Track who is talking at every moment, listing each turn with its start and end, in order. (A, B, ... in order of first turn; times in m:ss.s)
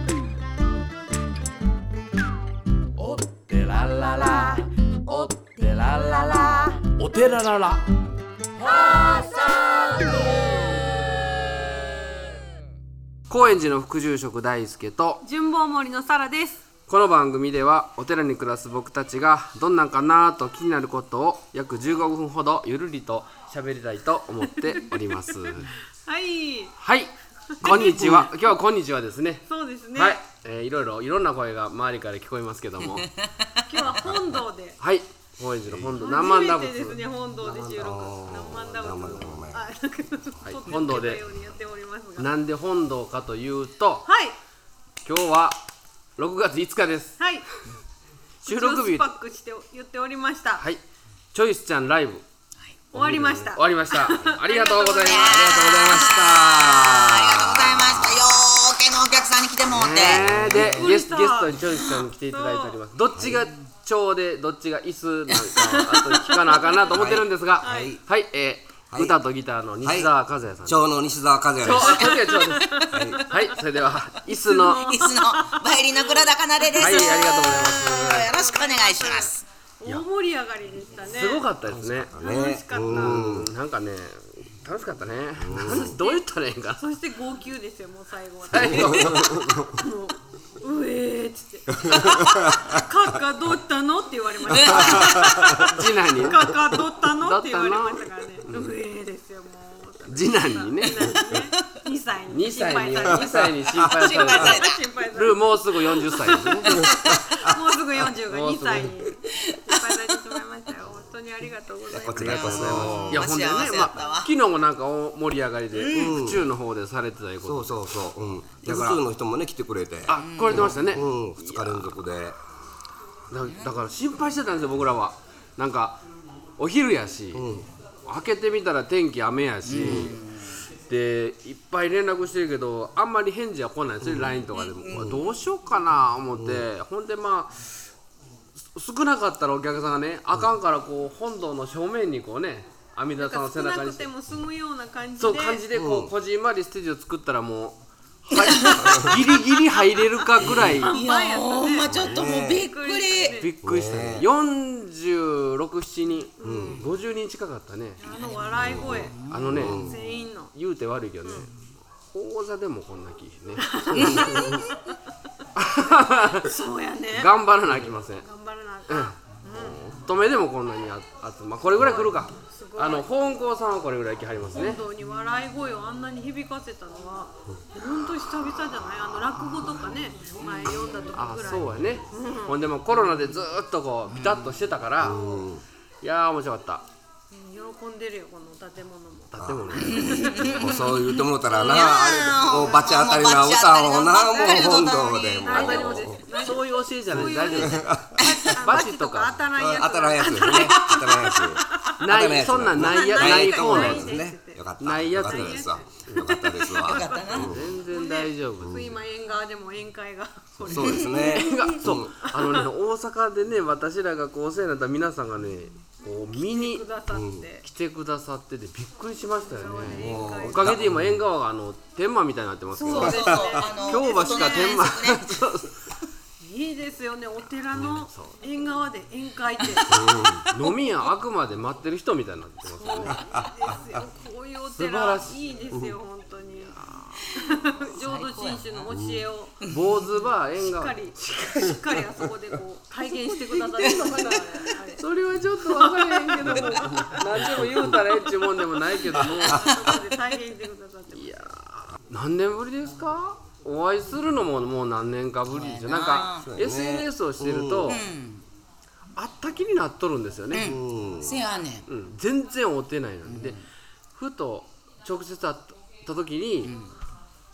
0:03.0-0:07.8 A
0:08.6-0:10.1 A
0:13.3-0:15.2 B
0:15.2-0:16.6 C
0:16.9-0:25.7 B
0:24.6-0:26.7 C
0:26.8-0:33.1 B
0:27.5-0:28.3 C
0:29.5-0:30.2 C
0:32.8-0:33.8 D
0:33.7-0:34.8 C
0:33.9-0:34.4 E
0:34.8-0:38.0 B
0:35.7-0:36.0 E
0:36.0-0:42.3 C
0:37.8-0:39.6 E
0:38.9-0:39.4 B
0:40.4-0:41.2 B
0:42.2-0:44.1 B
0:44.1-0:44.4 C
0:45.0-0:45.6 B
0:46.2-0:47.2 B
0:47.2-0:47.5 C
0:48.4-0:49.2 B
0:48.4-0:50.7 C
0:51.3-0:52.2 B
0:52.9-0:55.9 C
0:52.9-0:57.9 B
0:55.0-1:00.6 D
0:57.8-0:58.3 E
0:59.7-1:10.8 B
1:00.1-1:00.9 E
1:00.6-1:02.8 C
1:05.6-1:07.1 C
1:06.9-1:08.0 E
1:07.6-1:07.9 C
1:09.8-1:10.1 E
1:10.6-1:12.2 E
1:11.6-1:14.9 B
1:11.7-1:13.5 C
1:12.9-1:13.4 E
1:14.3-1:21.5 C
1:14.6-1:19.4 D
1:16.7-1:18.3 B
1:21.1-1:22.1 B
1:21.7-1:23.5 E
1:22.2-1:23.2 C
1:22.9-1:26.8 B
1:25.4-1:26.0 E
1:25.7-1:26.2 C
1:26.8-1:52.5 C
1:28.5-1:29.3 B
1:28.5-1:29.8 E
1:31.8-1:32.8 E
1:34.5-1:35.4 D
1:34.6-1:35.8 E
1:35.6-1:36.5 B
1:37.1-1:38.7 B
1:40.1-1:41.2 B
1:42.3-1:46.8 B
1:43.1-1:44.0 E
1:43.7-1:44.8 D
1:46.0-1:46.9 D
1:46.6-1:47.6 E
1:48.3-1:49.0 B
1:49.4-1:50.0 D
1:51.9-1:53.5 E
1:52.1-1:54.3 D
1:52.2-1:58.0 B
1:55.7-1:56.2 D
1:55.9-1:56.5 E
1:57.4-2:02.4 E
1:58.6-1:59.0 B
2:00.1-2:01.7 B
2:00.2-2:01.8 D
2:03.3-2:06.0 B
2:03.5-2:03.7 D
2:06.6-2:07.5 B
2:07.3-2:07.7 E
2:08.1-2:10.2 B
2:09.6-2:10.6 D
2:09.8-2:10.1 E
2:10.9-2:17.8 B
2:14.0-2:14.3 E
2:14.3-2:15.2 D
2:15.0-2:15.2 E
2:16.4-2:16.6 E
2:18.7-2:24.1 B
2:23.2-2:25.6 C
2:25.2-2:31.0 B
2:25.7-2:26.1 E
2:28.4-2:29.2 D
2:28.9-2:29.2 E
2:30.4-2:30.8 E
2:30.8-2:33.5 C
2:30.9-2:33.5 D
2:31.8-2:32.7 E
2:33.3-2:38.0 B
2:33.6-2:34.3 E
2:36.4-2:36.8 C
2:36.4-2:36.9 E
2:38.0-2:40.5 C
2:38.1-2:39.7 D
2:38.6-2:40.0 E
2:39.3-2:44.3 B
2:43.6-2:44.9 C
2:44.0-2:44.7 E
2:45.6-2:46.6 B
2:46.1-2:47.3 C
2:47.1-2:48.3 B
2:48.2-2:49.8 C
2:48.9-2:54.8 B
2:51.8-2:53.1 C
2:54.5-3:02.6 C
3:00.4-3:01.0 D
3:01.1-3:05.4 B
3:04.1-3:04.6 D
3:05.0-3:05.6 E
3:06.0-3:06.8 B
3:07.3-3:09.4 C
3:09.3-3:10.2 B
3:09.4-3:16.2 E
3:09.7-3:16.0 D
3:09.9-3:10.9 C
3:12.5-3:13.1 C
3:14.3-3:24.6 C
3:15.5-3:17.9 B
3:17.1-3:18.2 E
3:18.2-3:18.5 D
3:18.6-3:19.4 B
3:19.5-3:27.6 E
3:22.0-3:24.2 B
3:24.8-3:26.3 B
3:25.1-3:27.3 C
3:26.6-3:27.6 D
3:27.3-3:28.9 B
3:27.9-3:31.7 C
3:28.6-3:28.9 E
3:30.6-3:32.1 E
3:30.8-3:31.6 D
3:31.4-3:36.9 B
3:32.2-3:32.7 C
3:36.1-3:37.6 C
3:37.1-3:37.5 E
3:37.6-3:45.8 B
3:39.4-3:40.8 C
3:39.8-3:41.2 E
3:42.7-3:45.0 C
3:42.9-3:45.5 D
3:43.0-3:43.7 E
3:46.4-3:50.0 C
3:47.9-3:48.4 B
3:49.9-3:50.4 E
3:50.2-3:53.2 B
3:50.5-3:50.8 D
3:52.8-3:56.8 C
3:52.9-3:53.4 D
3:53.3-3:54.0 E
3:54.8-3:55.4 B
3:56.8-3:57.2 B
3:57.3-3:59.6 C
3:57.9-3:58.9 D
3:58.9-3:59.2 E
3:59.7-4:01.8 B
4:00.6-4:05.0 C
4:03.5-4:04.5 B
4:03.8-4:04.8 D
4:05.0-4:09.8 B
4:05.8-4:06.6 D
4:06.4-4:08.0 C
4:07.0-4:07.9 E
4:09.1-4:11.4 C
4:09.4-4:09.9 E
4:11.2-4:18.0 B
4:15.5-4:16.6 D
4:16.4-4:18.0 E
4:17.8-4:18.4 D
4:19.2-4:20.7 B
4:20.5-4:21.9 D
4:20.6-4:21.4 E
4:21.9-4:23.6 B
4:23.2-4:23.6 D
4:24.2-4:26.7 B
4:26.6-4:26.9 D